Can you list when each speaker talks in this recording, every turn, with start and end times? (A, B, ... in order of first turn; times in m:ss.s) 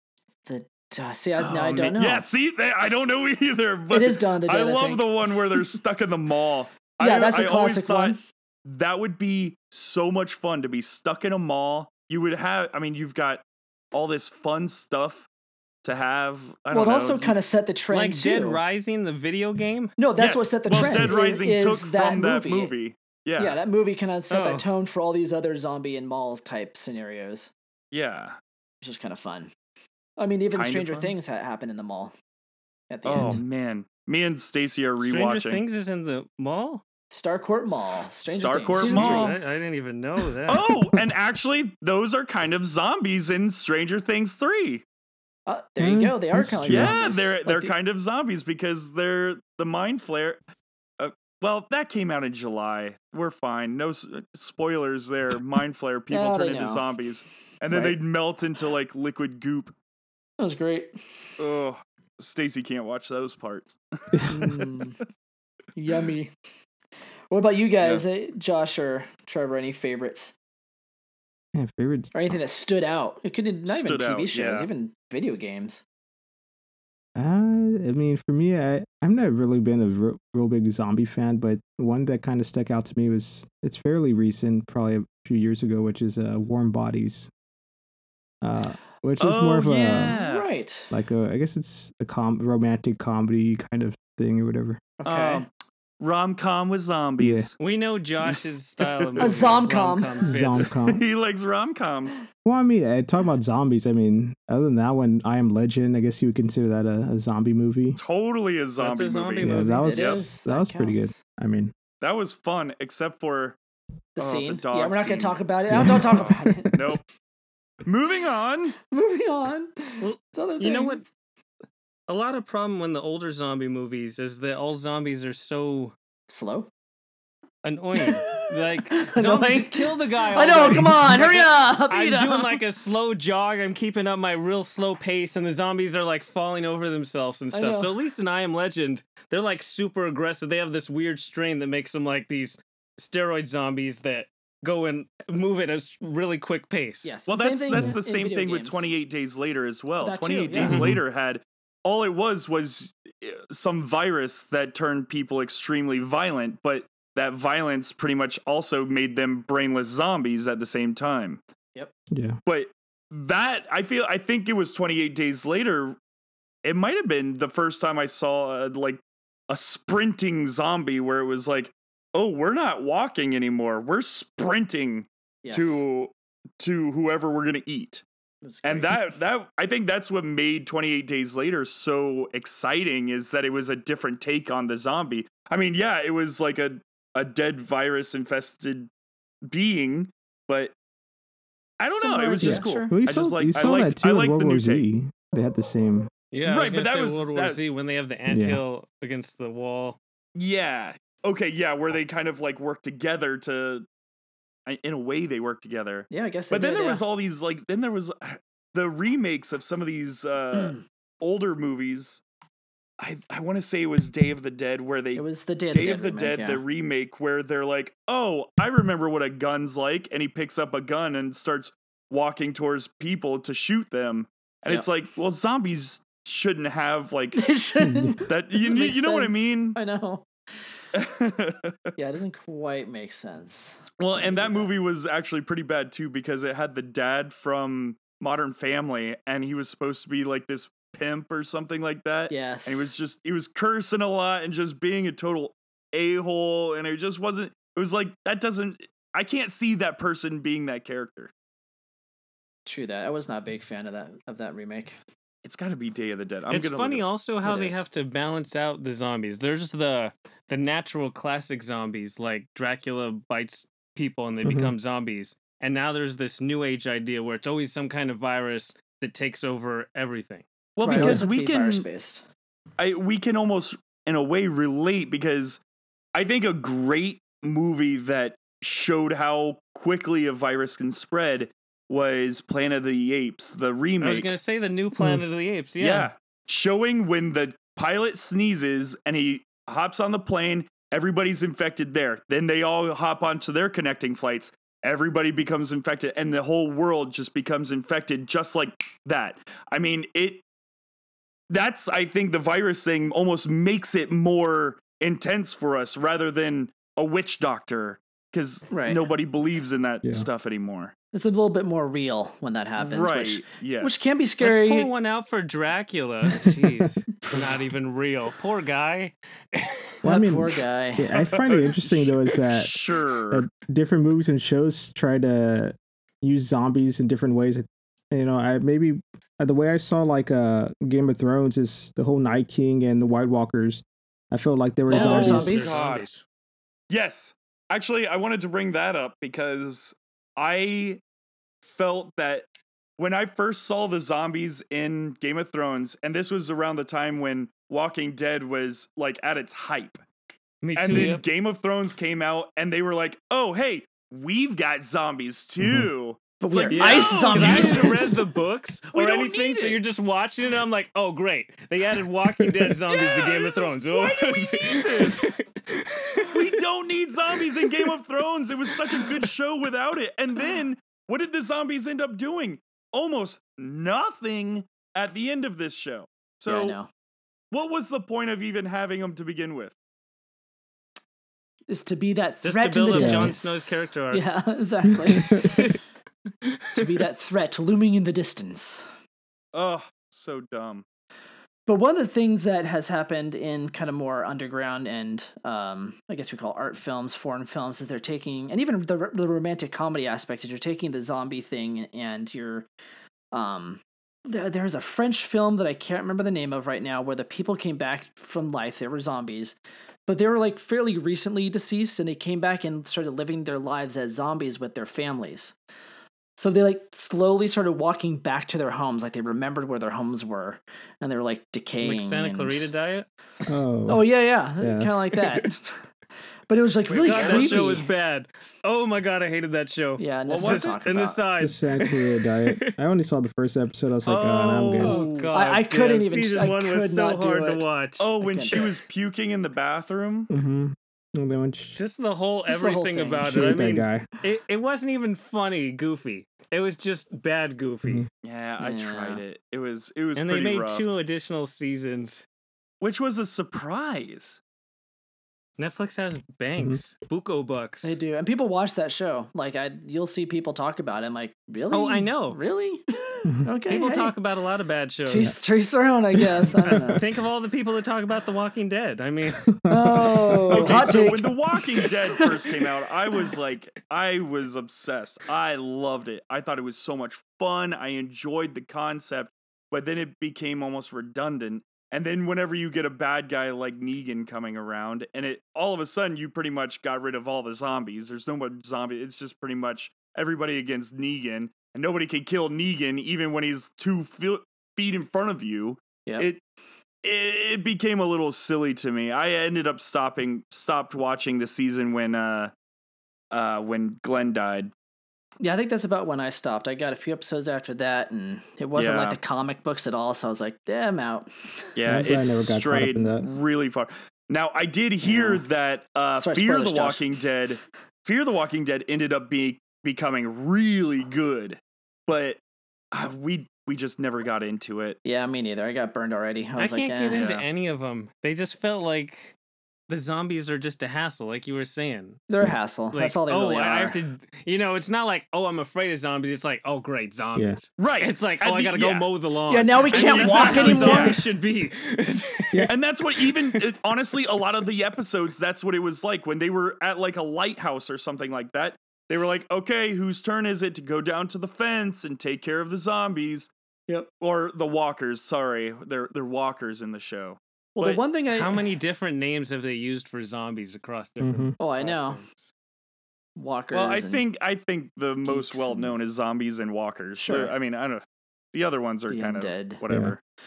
0:00.4-0:02.2 A
0:01.4-0:15.3 B
0:03.9-0:05.1 A
0:07.0-0:08.2 A
0:15.8-0:17.4 B
0:16.7-0:18.6 A
0:17.9-0:19.9 C
0:20.0-0:22.7 A
0:20.2-0:23.6 B
0:23.4-0:27.5 A
0:24.3-0:24.6 C
0:27.9-0:28.4 B
0:28.8-0:29.5 A
0:30.2-0:32.1 A
0:30.5-0:31.1 B
0:32.9-0:33.4 A
0:33.0-0:35.6 B
0:35.0-0:36.8 C
0:37.1-0:39.4 A
0:38.3-0:39.4 B
0:38.8-0:40.7 C
0:40.5-0:44.8 B
0:45.5-0:47.7 A
0:45.8-0:46.9 D
0:46.7-0:50.4 B
0:51.0-0:59.8 B
0:56.1-0:56.9 A
0:57.7-0:58.0 A
1:00.4-1:00.9 A
1:01.4-1:04.8 B
1:04.3-1:05.0 A
1:05.8-1:06.3 A
1:07.3-1:10.3 A
1:11.5-1:12.1 D
1:12.1-1:15.8 A
1:13.7-1:14.7 B
1:17.2-1:27.3 D
1:28.4-1:30.1 D
1:29.2-1:30.5 B
1:29.9-1:31.0 A
1:30.9-1:34.8 D
1:35.0-1:35.5 A
1:35.0-1:35.5 B
1:36.0-1:37.6 B
1:37.2-1:37.5 D
1:37.6-1:40.7 C
1:38.2-1:39.5 B
1:39.2-1:40.2 A
1:40.2-1:41.0 D
1:40.6-1:42.2 B
1:42.4-1:48.0 D
1:48.0-1:50.3 B
1:48.8-1:50.0 C
1:49.4-1:51.7 D
1:49.8-1:51.2 A
1:52.0-1:53.6 B
1:54.2-1:56.8 A
1:54.2-1:57.0 B
1:55.7-1:56.6 D
1:57.8-1:58.8 B
1:58.9-2:01.0 A
2:00.0-2:01.0 C
2:02.1-2:06.0 C
2:06.3-2:06.7 A
2:07.6-2:27.2 C
2:08.0-2:12.6 A
2:17.5-2:17.9 A
2:27.0-2:28.9 A
2:27.3-2:41.4 B
2:30.0-2:30.8 A
2:30.6-2:31.0 C
2:30.6-2:31.0 D
2:42.1-2:42.4 D
2:42.4-2:46.0 B
2:46.6-2:58.0 B
2:55.4-2:55.8 A
2:58.4-2:59.0 A
2:58.6-3:08.9 B
3:09.5-3:10.7 B
3:11.8-3:14.8 B
3:12.0-3:13.0 A
3:12.4-3:16.1 D
3:16.3-3:20.0 C
3:16.4-3:17.6 B
3:18.3-3:18.6 D
3:20.4-3:23.9 B
3:24.7-3:32.2 B
3:26.1-3:27.0 A
3:33.0-3:47.5 B
3:35.2-3:36.6 A
3:47.4-3:50.3 A
3:47.8-3:48.2 D
3:48.2-3:49.8 B
3:50.9-3:51.8 B
3:52.0-3:54.7 A
3:54.0-4:11.3 B
4:02.3-4:02.9 A
4:12.7-4:15.0 A
4:15.4-4:17.0 B
4:16.5-4:30.4 C
4:17.4-4:17.8 A
4:24.4-4:24.7 D
4:30.8-4:31.9 B
4:30.8-4:32.2 A
4:30.9-4:31.2 D
4:32.8-4:35.6 B
4:36.1-4:44.3 B
4:44.0-4:46.1 C
4:45.0-4:45.2 D
4:45.8-5:00.4 B
5:01.5-5:10.9 B
5:08.7-5:09.0 A
5:11.1-5:14.9 A
5:12.8-5:14.1 B
5:14.4-5:19.8 C
5:16.4-5:16.9 D
5:20.0-5:22.8 D
5:20.0-5:21.1 A
5:21.2-5:23.5 B
5:23.3-5:35.6 D
5:34.9-5:35.8 A
5:34.9-5:36.2 C
5:34.9-5:36.1 B
5:36.9-5:41.0 B
5:41.6-5:50.0 B
5:50.6-5:51.2 C
5:50.8-5:58.2 B
5:55.6-5:55.9 D
5:56.4-5:58.2 A
5:56.7-6:06.6 C
5:58.9-5:59.8 B
6:02.9-6:05.4 B
6:06.2-6:16.8 B
6:07.3-6:08.0 C
6:08.7-6:09.3 C
6:16.5-6:16.9 A
6:17.5-6:19.8 B
6:21.7-6:25.7 A
6:22.4-6:24.2 C
6:22.9-6:23.4 D
6:25.1-6:25.6 D
6:25.4-6:25.8 C
6:26.4-6:26.8 C
6:26.8-6:28.9 A
6:29.5-6:30.8 B
6:31.7-6:42.7 A
6:43.3-6:55.6 A
6:56.4-7:02.7 A
7:01.8-7:03.1 C
7:03.5-7:04.0 D
7:03.9-7:05.8 A
7:04.6-7:04.9 D
7:06.5-7:07.9 A
7:06.9-7:07.7 B
7:07.0-7:12.7 C
7:10.0-7:11.2 A
7:10.3-7:10.8 B
7:11.4-7:15.0 D
7:14.0-7:15.3 B
7:14.8-7:18.7 C
7:15.3-7:17.6 A
7:18.0-7:20.3 B
7:18.2-7:18.7 A
7:20.3-7:21.8 D
7:21.8-7:28.0 C
7:22.5-7:23.6 A
7:23.2-7:24.1 D
7:28.2-7:30.9 B
7:28.6-7:29.2 A
7:30.2-7:32.2 C
7:32.8-7:34.4 B
7:35.6-7:38.0 C
7:37.8-7:44.1 A
7:41.7-7:42.4 C
7:43.7-7:45.3 C
7:45.0-7:47.0 A
7:46.9-7:49.6 C
7:49.5-7:50.7 D
7:49.7-7:51.4 A
7:50.5-8:16.4 B
7:50.7-7:51.0 C
8:17.0-8:22.5 B
8:23.3-8:24.7 B
8:25.4-8:31.7 A
8:28.8-8:29.2 B
8:31.8-8:42.4 B
8:31.9-8:33.3 D
8:35.0-8:35.4 A
8:36.2-8:37.1 A
8:42.9-8:45.0 B
8:45.0-8:47.3 A
8:46.6-8:49.4 C
8:47.1-8:47.5 B
8:49.9-8:52.2 C
8:52.3-8:54.0 A
8:52.9-9:03.6 C
8:57.8-8:59.1 B
8:59.5-9:01.2 A
8:59.9-9:01.2 B
9:02.7-9:13.5 B
9:14.2-9:18.0 B
9:17.8-9:18.7 A
9:18.3-9:22.5 C
9:21.2-9:21.5 D
9:21.6-9:22.2 A
9:23.4-9:24.2 A
9:23.7-9:30.2 B
9:25.2-9:26.0 A
9:27.2-9:27.5 A
9:29.1-9:29.8 A
9:29.9-9:30.2 D